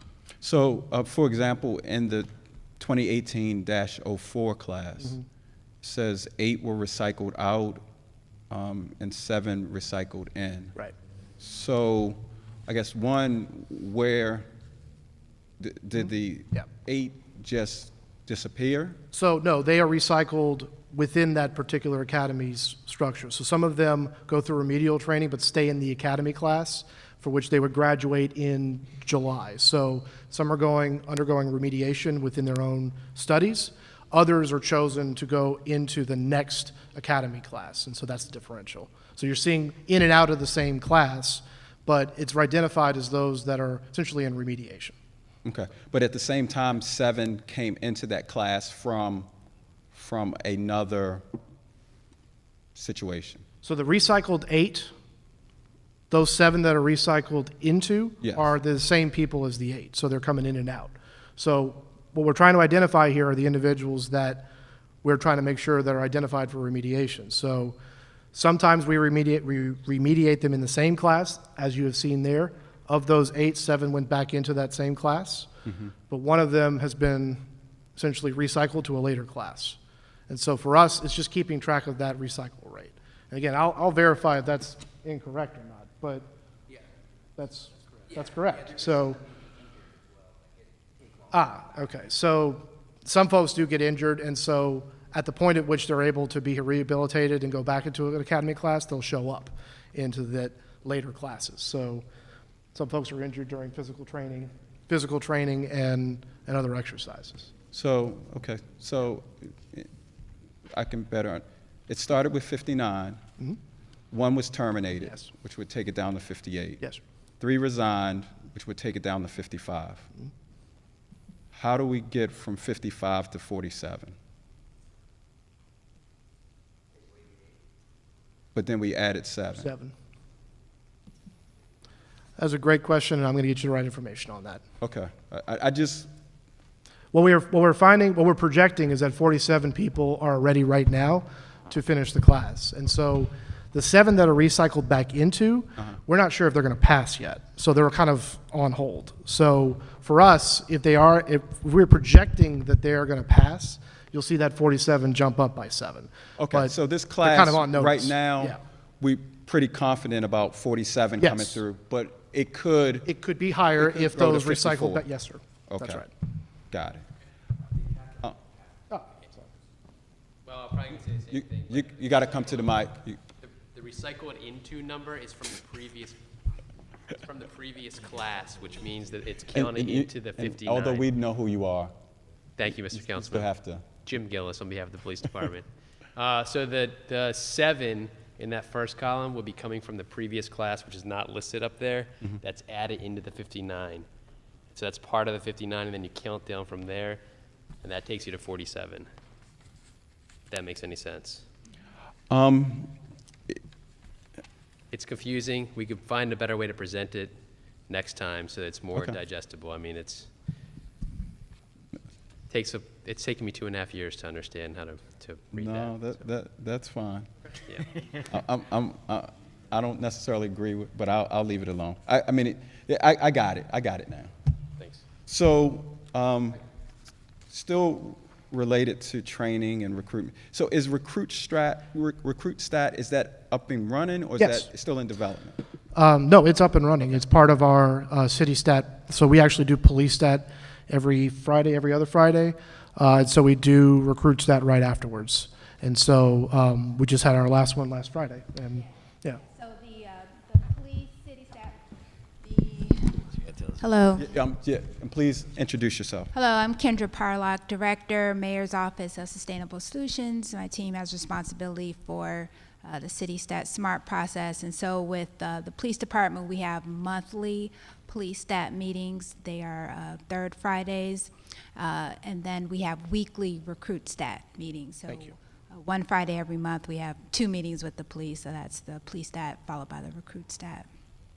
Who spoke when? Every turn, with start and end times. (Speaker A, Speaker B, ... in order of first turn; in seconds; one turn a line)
Speaker A: 0.4-5.2
Speaker A: 5.8-7.8
Speaker A: 8.5-10.8
Speaker A: 11.4-14.5
Speaker A: 15.6-19.0
Speaker B: 19.1-45.0
Speaker A: 45.4-49.3
Speaker A: 49.9-51.2
Speaker A: 52.8-53.4
Speaker B: 53.6-54.9
Speaker B: 56.1-64.5
Speaker A: 58.2-58.5
Speaker B: 65.0-67.8
Speaker B: 68.3-75.5
Speaker B: 76.1-77.4
Speaker B: 78.0-79.8
Speaker B: 80.3-86.3
Speaker B: 87.4-89.2
Speaker B: 91.3-102.0
Speaker B: 102.7-107.5
Speaker A: 107.7-109.9
Speaker A: 110.7-113.2
Speaker A: 114.1-116.8
Speaker A: 117.4-120.1
Speaker A: 121.5-124.2
Speaker A: 128.5-129.7
Speaker B: 129.6-129.9
Speaker B: 132.4-134.6
Speaker A: 134.8-136.1
Speaker B: 137.1-158.6
Speaker A: 156.4-163.1
Speaker B: 161.2-161.6
Speaker B: 163.1-166.1
Speaker A: 163.8-165.1
Speaker A: 165.7-166.1
Speaker A: 166.7-167.0
Speaker C: 170.4-172.7
Speaker A: 171.3-173.2
Speaker C: 173.4-176.2
Speaker C: 177.2-181.1
Speaker A: 179.5-181.9
Speaker C: 182.6-194.1
Speaker A: 183.1-183.9
Speaker C: 194.7-197.2
Speaker C: 197.8-199.1
Speaker C: 200.5-201.4
Speaker A: 202.3-202.9
Speaker C: 204.9-207.3
Speaker C: 207.9-210.3
Speaker C: 212.5-215.9
Speaker A: 215.5-217.3
Speaker A: 218.2-224.3
Speaker C: 224.8-225.0
Speaker A: 225.3-226.6
Speaker A: 227.5-235.6
Speaker B: 234.4-234.7
Speaker B: 235.9-249.4
Speaker D: 249.4-251.8
Speaker D: 252.4-254.3
Speaker A: 254.2-256.3
Speaker D: 256.3-280.9